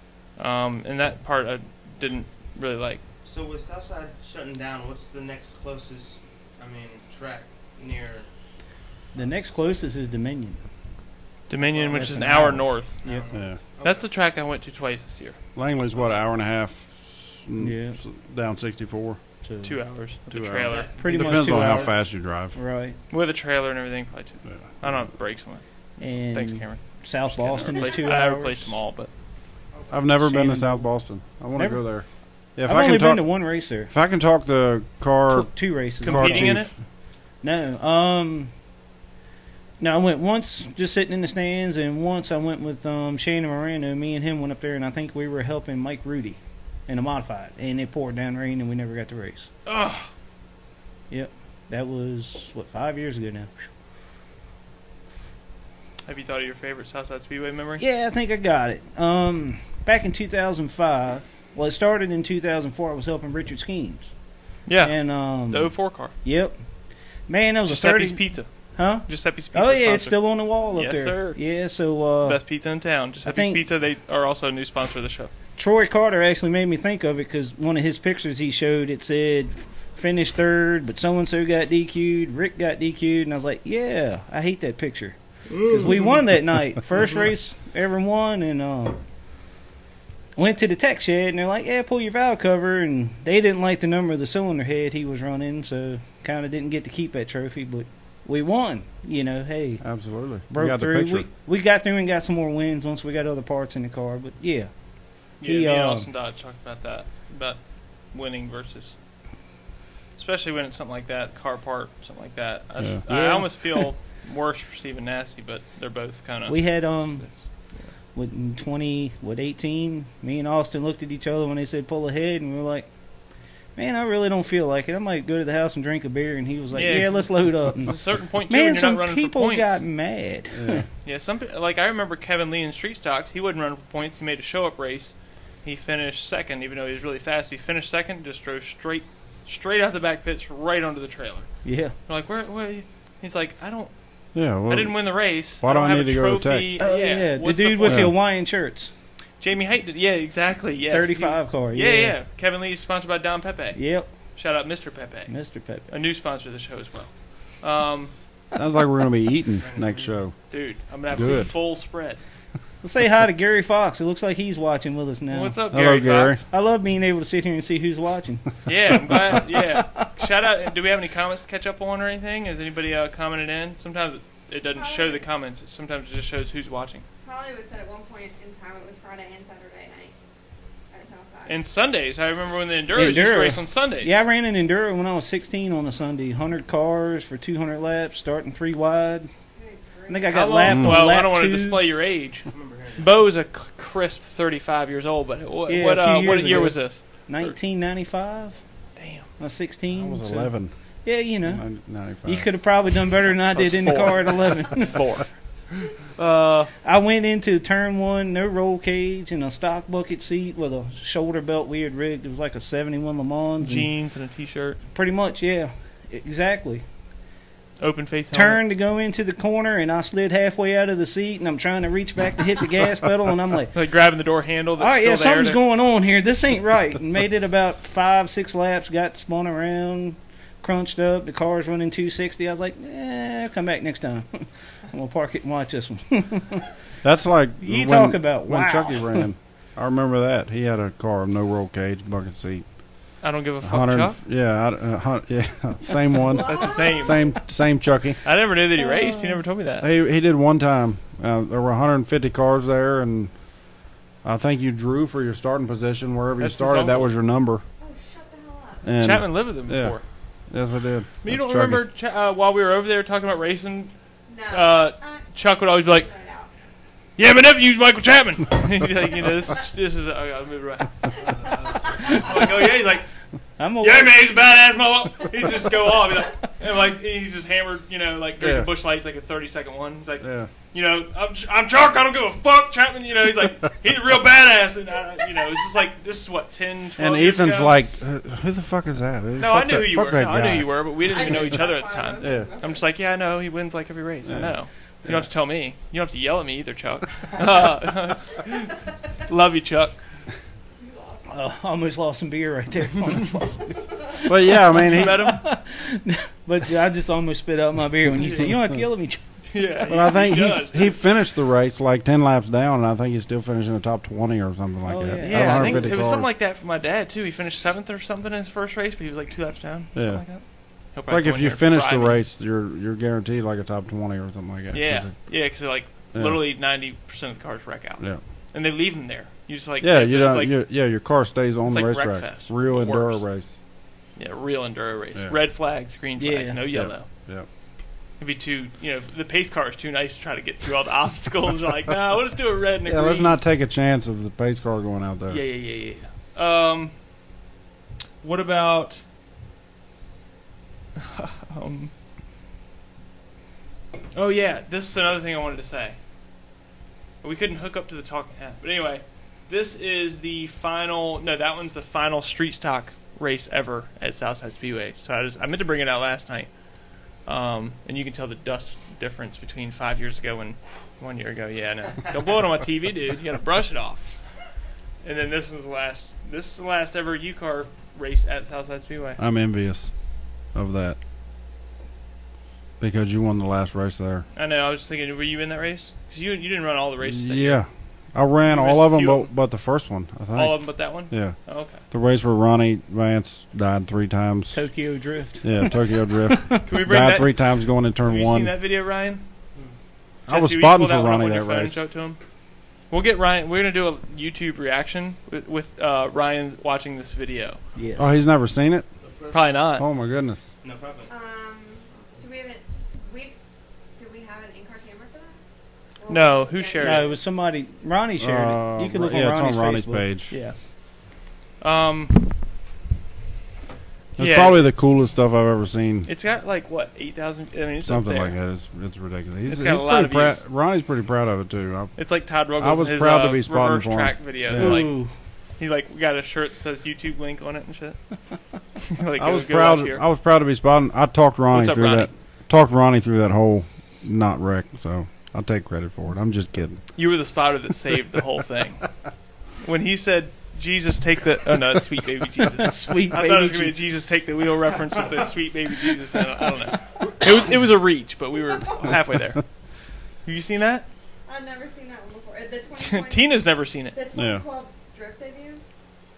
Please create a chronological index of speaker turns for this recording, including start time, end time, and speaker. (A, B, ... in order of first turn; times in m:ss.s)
0:00.4-0:03.0 A
0:03.2-0:08.3 B
0:09.1-0:10.6 C
0:09.1-0:09.5 B
0:11.5-0:13.0 A
0:11.7-0:12.2 B
0:11.9-0:13.2 C
0:13.0-0:14.1 B
0:13.3-0:13.6 D
0:13.8-0:15.4 A
0:15.5-0:19.2 D
0:17.6-0:18.0 C
0:19.4-0:19.8 C
0:19.6-0:20.9 A
0:20.3-0:22.6 D
0:20.6-0:22.0 B
0:20.9-0:22.0 C
0:22.5-0:23.0 C
0:23.1-0:29.1 A
0:24.5-0:25.0 D
0:26.0-0:28.8 C
0:29.7-0:30.1 B
0:29.9-0:33.3 D
0:30.2-0:30.9 C
0:31.6-0:31.8 C
0:32.6-0:33.9 C
0:33.9-0:36.7 D
0:35.3-0:36.6 C
0:36.0-0:36.7 A
0:37.4-0:38.5 C
0:39.8-0:49.5 C
0:49.6-0:50.1 A
0:51.1-0:53.5 C
0:56.0-0:57.8 A
0:57.8-1:04.1 C
1:04.6-1:06.1 A
1:04.8-1:06.6 C
1:07.3-1:08.2 C
1:07.6-1:11.4 A
1:08.8-1:12.4 C
1:12.2-1:15.3 A
1:13.2-1:13.6 C
1:15.6-1:25.2 C
1:25.5-1:26.0 B
1:25.7-1:29.0 C
1:30.4-1:39.8 C
1:39.8-1:41.3 D
1:40.5-1:44.7 C
1:45.4-1:47.6 A
1:45.4-1:46.1 C
1:48.1-1:49.0 A
1:50.2-1:56.8 A
1:53.1-1:53.9 C
1:56.5-1:57.3 C
1:58.1-2:02.9 C
2:03.8-2:08.0 C
2:06.7-2:09.8 A
2:08.5-2:10.8 C
2:10.5-2:10.8 D
2:11.0-2:21.5 A
2:21.6-2:21.9 C
2:22.1-2:23.9 A
2:24.3-2:26.8 D
2:24.7-2:28.1 A
2:26.8-2:28.9 C
2:27.8-2:28.1 D
2:29.4-2:33.8 A
2:30.9-2:32.1 C
2:33.7-2:34.1 C
2:34.3-2:35.3 A
2:35.3-2:35.9 C
2:35.9-2:38.1 A
2:38.5-2:40.3 D
2:39.6-2:40.2 B
2:40.5-2:42.2 A
2:41.1-2:41.5 D
2:42.8-2:45.6 C
2:45.3-2:46.4 A
2:45.7-2:46.4 D
2:46.5-2:50.2 C
2:48.6-2:57.0 A
2:54.7-2:55.3 E
2:57.2-3:00.2 E
3:00.9-3:01.6 E
3:01.4-3:04.1 A
3:02.9-3:09.3 C
3:09.6-3:10.6 E
3:10.1-3:11.8 C
3:10.3-3:17.6 A
3:10.7-3:11.0 D
3:12.5-3:13.1 B
3:15.7-3:18.6 C
3:19.0-3:19.3 A
3:19.4-3:20.5 C
3:19.9-3:20.7 D
3:21.0-3:21.6 C
3:21.4-3:22.6 D
3:22.2-3:25.1 C
3:23.5-3:25.2 A
3:26.1-3:26.7 A
3:26.8-3:33.9 C
3:33.6-3:34.8 A
3:34.9-3:36.8 C
3:37.8-3:38.6 A
3:38.3-3:43.7 C
3:43.7-3:45.6 A
3:44.8-3:56.7 C
3:57.0-4:02.6 D
3:57.6-3:59.3 C
4:03.2-4:04.2 A
4:03.6-4:08.2 D
4:06.2-4:07.4 E
4:06.4-4:07.3 A
4:08.2-4:09.9 A
4:09.8-4:13.3 D
4:14.2-4:17.6 D
4:16.4-4:17.1 A
4:17.8-4:18.8 E
4:18.8-4:20.0 D
4:19.0-4:20.0 A
4:20.5-4:21.8 D
4:21.2-4:23.9 A
4:24.3-4:26.5 E
4:24.5-4:26.1 A
4:27.2-4:31.1 A
4:31.2-4:32.2 B
4:32.0-4:33.0 A
4:33.6-4:34.2 C
4:33.8-4:47.8 A
4:38.4-4:38.7 D
4:40.2-4:40.5 D
4:47.0-4:51.4 D
4:49.4-5:00.0 A
4:51.1-4:52.9 E
4:52.2-4:52.5 D
4:54.2-4:55.2 D
5:00.8-5:01.3 E
5:01.3-5:09.2 C
5:04.2-5:05.3 D
5:04.8-5:05.4 A
5:08.2-5:08.5 A
5:09.5-5:11.0 A
5:09.9-5:16.3 D
5:14.8-5:16.0 C
5:15.2-5:22.2 A
5:19.9-5:20.4 D
5:20.9-5:25.3 D
5:24.7-5:30.6 A
5:26.1-5:26.4 D
5:29.8-5:33.5 D
5:31.7-5:33.2 A
5:34.2-5:37.1 A
5:36.2-5:36.6 C
5:36.7-5:37.4 D
5:38.2-5:43.3 A
5:42.9-5:45.4 D
5:45.3-5:46.9 A
5:48.2-5:49.0 A
5:51.0-5:51.9 A
5:54.1-5:56.0 A
5:57.2-6:06.5 A
6:07.2-6:14.1 A
6:15.0-6:19.2 A
6:19.2-6:19.9 D
6:20.5-6:21.0 D
6:22.8-6:24.2 D
6:24.3-6:27.6 A
6:27.0-6:34.6 D
6:28.4-6:29.3 A
6:30.3-6:31.8 A
6:34.5-6:36.6 C
6:35.4-6:38.5 D
6:36.6-6:37.4 A
6:38.0-6:39.2 A
6:40.2-6:42.2 A
6:40.3-6:41.8 D
6:42.9-6:47.6 A
6:47.8-6:48.1 C
6:48.0-6:48.9 D
6:49.0-6:49.5 B
6:49.3-6:49.8 A
6:49.8-6:50.5 D
6:50.6-6:51.2 B
6:51.1-6:53.4 E
6:51.9-6:52.2 B
6:54.0-6:55.4 E
6:56.0-6:57.2 E
6:56.1-6:57.1 A
6:56.8-7:00.0 C
6:58.2-7:00.3 D
7:00.3-7:00.6 A
7:01.6-7:02.3 A
7:04.2-7:06.1 D
7:04.2-7:04.8 A
7:06.0-7:08.4 A
7:07.8-7:12.0 D
7:09.4-7:10.4 A
7:12.0-7:14.9 A
7:12.6-7:14.9 D
7:14.5-7:15.1 C
7:15.6-7:18.0 A
7:18.8-7:20.0 A
7:19.2-7:26.8 D
7:21.5-7:22.1 A
7:27.0-7:28.8 A
7:29.6-7:39.4 A
7:32.4-7:33.9 C
7:40.2-7:40.8 A
7:41.3-7:45.6 E
7:42.8-7:44.0 A
7:44.1-7:44.4 D